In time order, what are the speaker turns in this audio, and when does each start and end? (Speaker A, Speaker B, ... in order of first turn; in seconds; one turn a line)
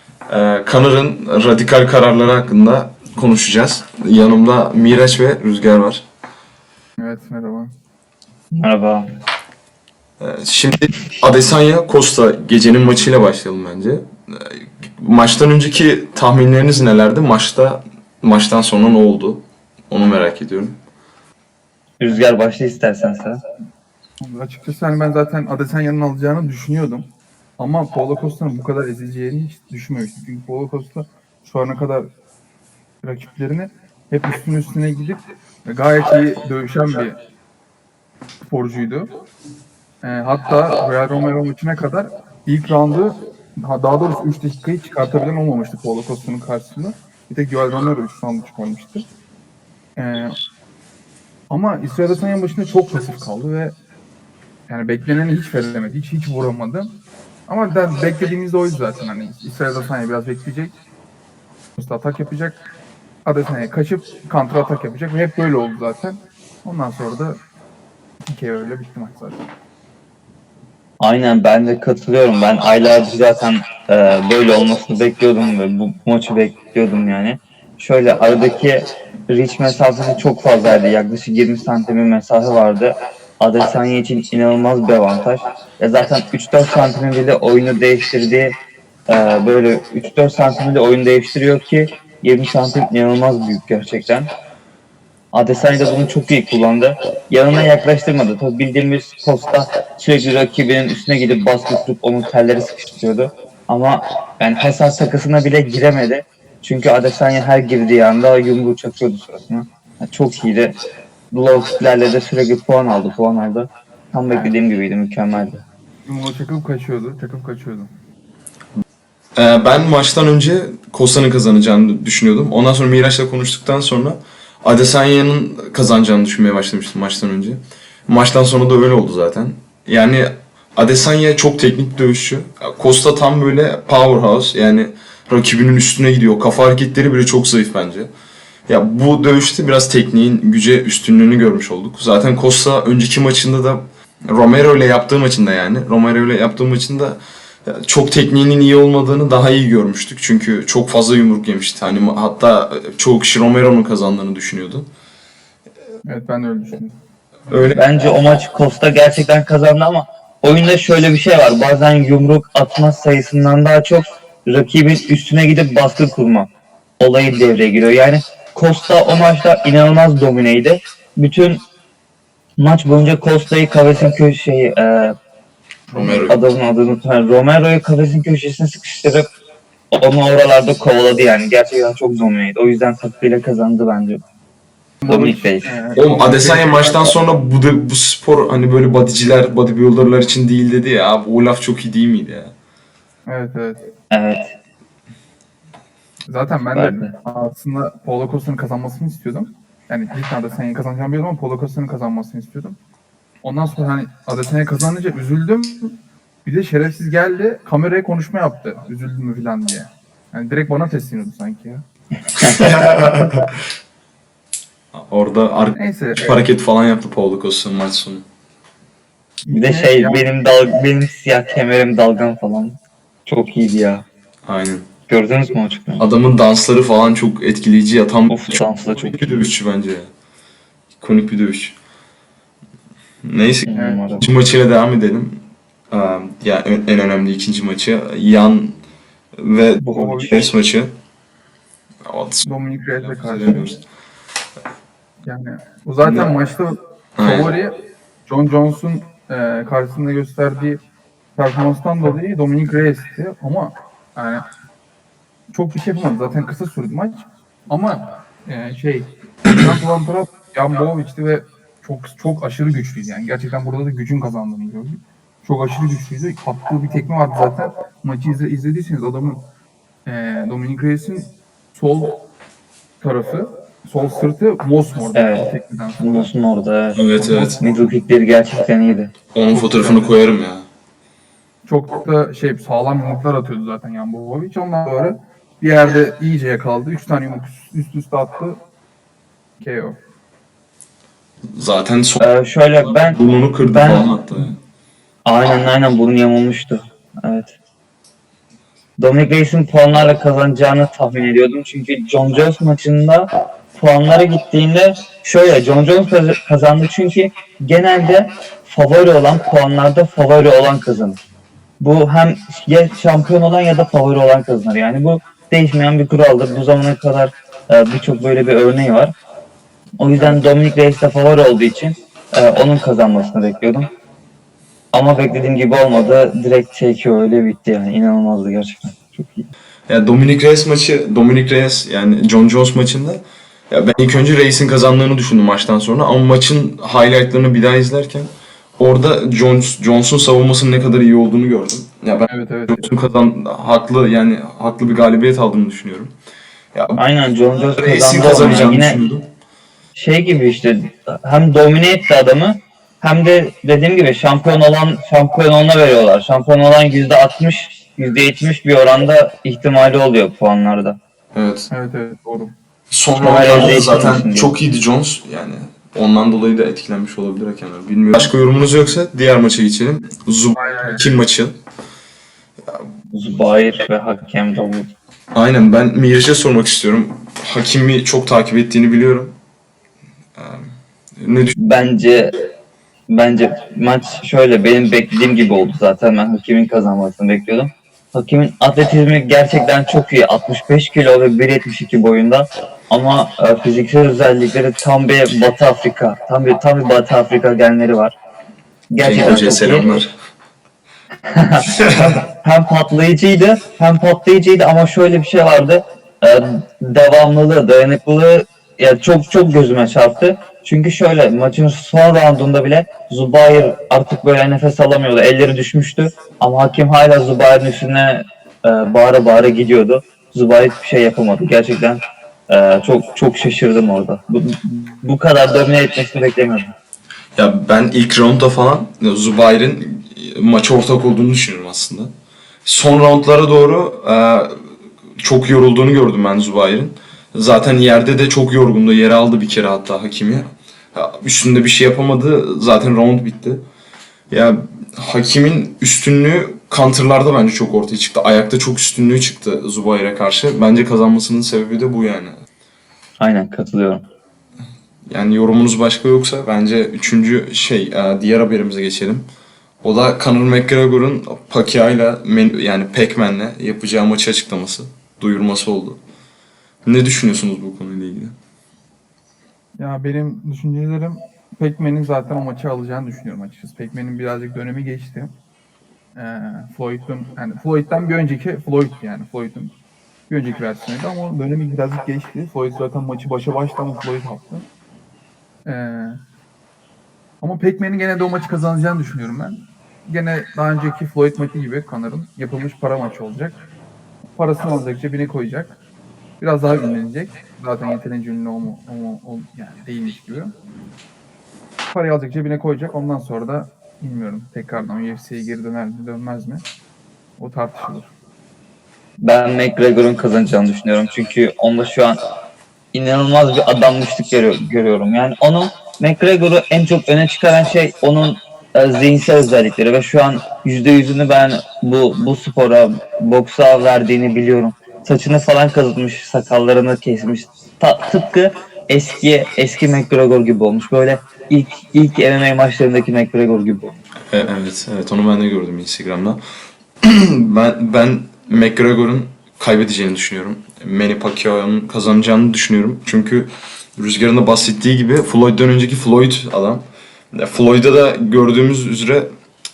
Speaker A: 0.3-6.0
Speaker B: 7.0-7.7
Speaker C: 8.6-9.0
Speaker A: 10.2-20.8
Speaker C: 22.0-23.4
Speaker B: 24.2-27.1
Speaker B: 27.6-32.1
Speaker B: 33.0-37.2
Speaker B: 38.4-39.1
Speaker B: 40.0-49.0
Speaker B: 50.0-50.3
Speaker B: 51.5-53.7
Speaker B: 54.7-56.9
Speaker B: 57.5-60.7
Speaker B: 61.8-62.6
Speaker B: 63.2-67.4
Speaker B: 68.3-69.4
Speaker C: 71.0-88.5
Speaker C: 89.1-94.3
Speaker C: 95.3-110.8
Speaker C: 111.3-115.6
Speaker B: 116.0-117.9
Speaker A: 119.3-138.1
Speaker A: 138.7-154.8
Speaker B: 156.0-156.9
Speaker A: 157.5-157.8
Speaker C: 157.7-166.5
Speaker C: 167.0-171.6
Speaker C: 172.6-175.1
Speaker B: 175.9-176.2
Speaker A: 175.9-176.4
Speaker C: 176.2-179.3
Speaker C: 179.9-184.2
Speaker B: 185.0-187.1
Speaker C: 185.1-185.7
Speaker A: 185.9-192.5
Speaker B: 193.3-193.8
Speaker C: 194.1-194.5
Speaker B: 196.3-202.8
Speaker C: 196.7-197.1
Speaker B: 203.4-205.9
Speaker B: 206.4-211.8
Speaker A: 212.4-213.5
Speaker C: 212.4-212.7
Speaker A: 214.9-218.2
Speaker B: 215.7-216.4
Speaker B: 219.4-220.2
Speaker C: 219.5-224.0
Speaker A: 224.5-224.9
Speaker C: 225.1-226.0
Speaker A: 226.0-230.1
Speaker C: 228.3-229.4
Speaker A: 231.0-231.8
Speaker A: 233.2-235.4
Speaker C: 233.7-234.2
Speaker B: 233.7-234.1
Speaker A: 235.9-238.8
Speaker A: 239.4-240.9
Speaker B: 239.8-240.5
Speaker A: 242.1-243.8
Speaker B: 242.4-243.7
Speaker B: 245.2-247.8
Speaker A: 247.2-247.5
Speaker B: 248.3-250.8
Speaker B: 251.4-254.4
Speaker B: 255.5-269.4
Speaker B: 270.1-272.2
Speaker B: 273.0-276.3
Speaker C: 275.1-275.5
Speaker C: 276.0-279.1
Speaker A: 276.9-277.6
Speaker B: 277.2-277.9
Speaker A: 279.3-280.6
Speaker B: 279.5-280.2
Speaker B: 281.6-288.6
Speaker B: 289.6-290.0
Speaker A: 291.6-292.2
Speaker C: 292.2-293.2
Speaker A: 293.0-294.6
Speaker C: 293.7-294.1
Speaker C: 295.2-297.5
Speaker C: 299.0-311.2
Speaker C: 311.8-319.1
Speaker C: 320.0-323.9
Speaker C: 324.9-329.5
Speaker A: 329.9-346.1
Speaker B: 342.3-342.9
Speaker A: 346.7-347.0
Speaker C: 346.9-349.0
Speaker A: 347.7-349.3
Speaker C: 349.9-361.0
Speaker A: 361.3-361.7
Speaker B: 361.7-362.5
Speaker A: 362.9-371.5
Speaker C: 363.2-364.5
Speaker B: 370.6-371.2
Speaker C: 373.1-374.9
Speaker A: 375.3-379.3
Speaker A: 380.4-380.7
Speaker A: 381.2-381.5
Speaker C: 381.6-382.3
Speaker C: 383.1-398.1
Speaker C: 398.9-399.9
Speaker A: 399.0-400.1
Speaker C: 401.3-426.7
Speaker A: 427.4-432.1
Speaker A: 432.6-434.6
Speaker A: 435.2-443.6
Speaker A: 444.3-452.3
Speaker C: 453.2-454.0
Speaker A: 455.1-459.3
Speaker A: 459.8-466.0
Speaker A: 466.8-468.3
Speaker B: 469.8-475.3
Speaker B: 476.1-479.7
Speaker B: 480.3-484.6
Speaker B: 485.6-486.2
Speaker B: 487.4-493.6
Speaker B: 494.4-495.8
Speaker B: 496.4-500.5
Speaker B: 501.9-506.6
Speaker B: 507.4-508.1
Speaker C: 509.2-512.2
Speaker C: 512.9-534.0
Speaker A: 534.3-536.4
Speaker A: 537.0-549.3